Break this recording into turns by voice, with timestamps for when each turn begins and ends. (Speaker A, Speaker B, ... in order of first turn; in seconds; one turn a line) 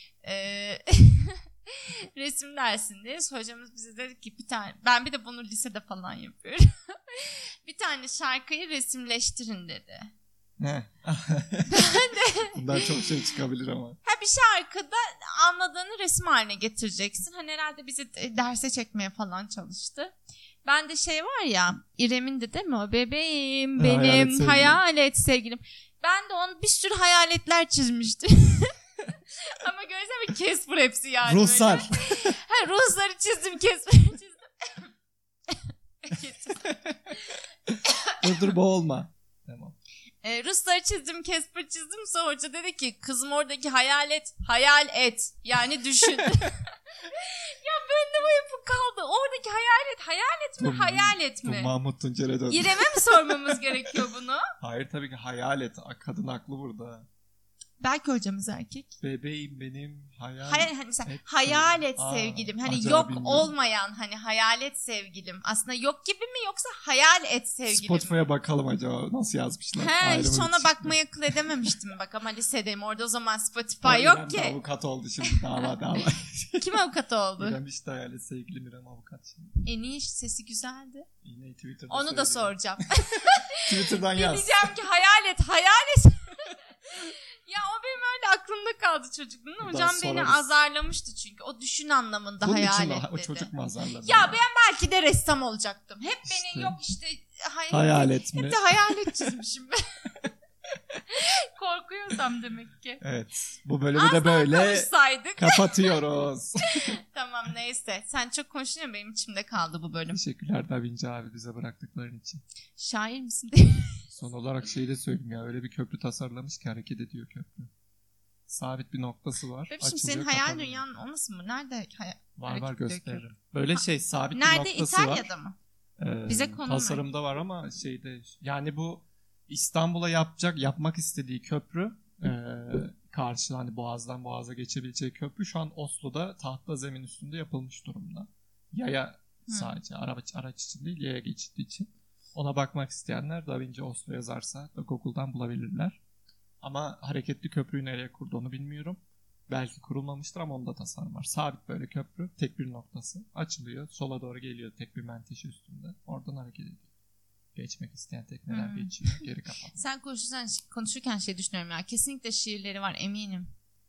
Speaker A: 0.2-10.1
Speaker B: 10.6-12.0
Speaker A: 11.7-13.0
Speaker B: 12.5-14.0
Speaker A: 14.0-34.9
Speaker B: 23.8-24.8
Speaker B: 31.2-32.4
Speaker A: 35.5-38.5
Speaker B: 36.6-37.1
Speaker B: 37.7-39.8
Speaker A: 40.2-51.7
Speaker B: 50.6-53.9
Speaker A: 52.5-54.4
Speaker B: 54.6-57.1
Speaker A: 57.8-59.0
Speaker B: 59.0-63.5
Speaker A: 60.4-68.2
Speaker B: 67.7-71.7
Speaker A: 69.8-74.6
Speaker B: 73.8-76.7
Speaker A: 76.6-77.6
Speaker B: 77.4-79.6
Speaker A: 79.6-81.1
Speaker B: 81.2-82.6
Speaker A: 81.9-93.5
Speaker B: 83.6-84.7
Speaker B: 89.6-90.5
Speaker B: 92.4-94.4
Speaker A: 94.0-99.8
Speaker B: 96.2-96.8
Speaker B: 97.7-99.3
Speaker A: 101.1-103.0
Speaker B: 103.0-107.0
Speaker A: 103.9-106.0
Speaker A: 106.7-110.2
Speaker B: 110.1-112.4
Speaker A: 112.8-114.1
Speaker B: 114.1-117.7
Speaker B: 118.5-120.8
Speaker A: 119.7-125.6
Speaker B: 122.4-125.3
Speaker B: 126.0-146.0
Speaker A: 126.3-127.0
Speaker A: 139.5-139.7
Speaker B: 146.6-156.9
Speaker B: 157.6-159.8
Speaker A: 158.5-163.5